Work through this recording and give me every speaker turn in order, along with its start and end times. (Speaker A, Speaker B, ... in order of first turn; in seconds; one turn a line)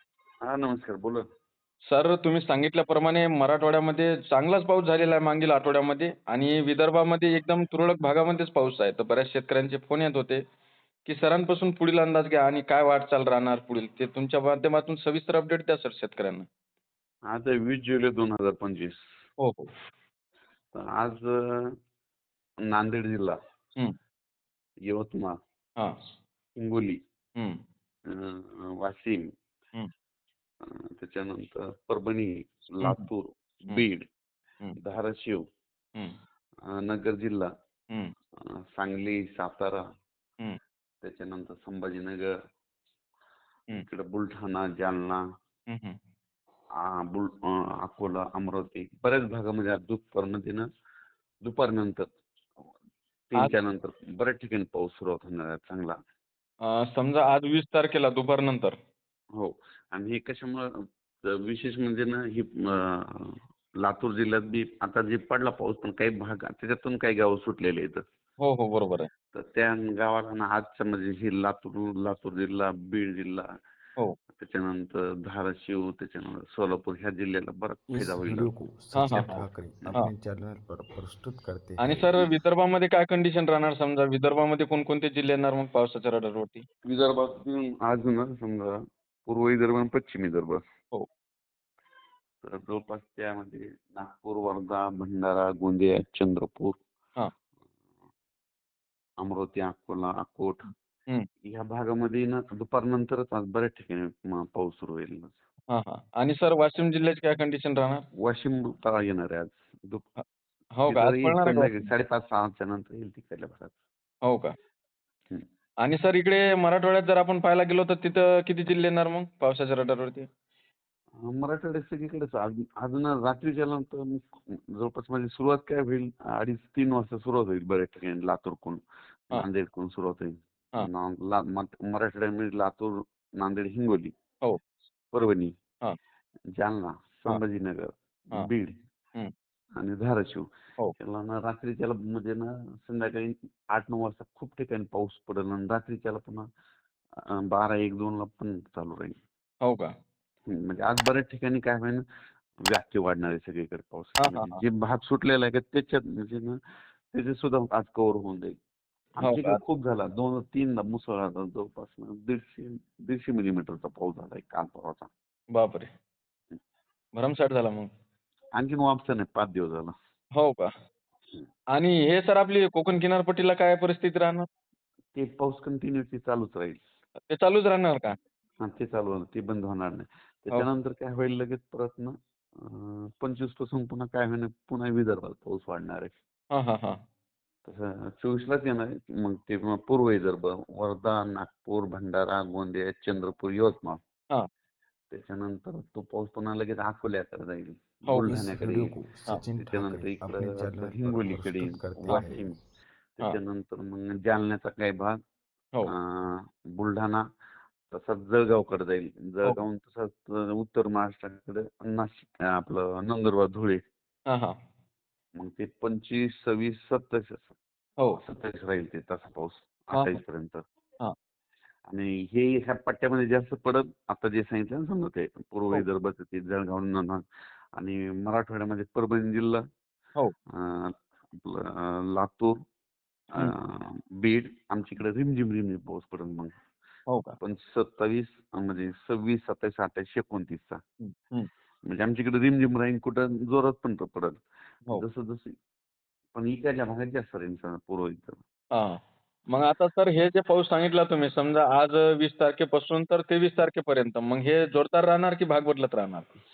Speaker A: 0.4-1.2
Speaker B: 1.9-10.4
Speaker B: 11.0-16.5
Speaker A: 17.3-19.0
Speaker B: 19.4-19.7
Speaker A: 20.7-21.7
Speaker A: 22.7-23.4
Speaker A: 24.9-25.4
Speaker A: 26.6-27.0
Speaker A: 28.1-29.2
Speaker A: 30.6-34.1
Speaker A: 34.8-35.4
Speaker A: 36.7-37.5
Speaker A: 38.8-39.8
Speaker A: 41.0-42.3
Speaker A: 43.7-45.2
Speaker B: 45.7-46.0
Speaker A: 46.8-50.6
Speaker A: 51.4-52.0
Speaker A: 53.3-56.0
Speaker B: 56.7-58.8
Speaker A: 59.4-60.7
Speaker A: 61.3-68.0
Speaker B: 68.4-69.1
Speaker A: 69.3-73.5
Speaker A: 74.4-78.5
Speaker C: 77.9-82.2
Speaker B: 78.9-80.1
Speaker B: 81.8-86.6
Speaker A: 86.8-90.6
Speaker A: 92.4-96.8
Speaker A: 99.2-100.7
Speaker A: 101.4-105.3
Speaker B: 105.7-108.0
Speaker A: 108.2-110.1
Speaker B: 110.8-111.9
Speaker A: 110.9-113.8
Speaker B: 114.2-114.5
Speaker B: 115.8-120.3
Speaker A: 121.2-128.8
Speaker A: 129.3-134.1
Speaker A: 135.1-135.5
Speaker A: 136.5-138.8
Speaker A: 139.8-140.4
Speaker A: 141.0-146.4
Speaker A: 147.3-149.2
Speaker B: 149.6-149.9
Speaker A: 150.5-152.0
Speaker A: 152.7-156.6
Speaker B: 154.2-154.6
Speaker A: 157.1-158.6
Speaker A: 159.2-165.1
Speaker B: 159.2-159.6
Speaker B: 165.5-165.9
Speaker B: 167.2-167.9
Speaker A: 168.6-169.9
Speaker B: 170.4-170.7
Speaker B: 171.7-174.5
Speaker A: 175.1-176.8
Speaker B: 177.3-178.1
Speaker A: 178.6-186.1
Speaker B: 186.5-187.0
Speaker A: 187.6-194.0
Speaker A: 195.1-202.6
Speaker C: 198.2-202.6
Speaker A: 203.2-205.2
Speaker A: 205.9-207.2
Speaker A: 207.9-213.8
Speaker B: 214.3-214.6
Speaker A: 215.3-217.6
Speaker A: 218.2-220.6
Speaker B: 219.9-220.2
Speaker A: 221.9-227.2
Speaker A: 227.8-229.6
Speaker A: 230.6-232.5
Speaker A: 233.4-236.5
Speaker B: 237.1-237.3
Speaker A: 237.4-240.8
Speaker B: 241.0-241.5
Speaker A: 241.9-244.4
Speaker A: 244.9-245.5
Speaker A: 246.3-248.4
Speaker B: 248.7-249.0
Speaker B: 249.5-256.3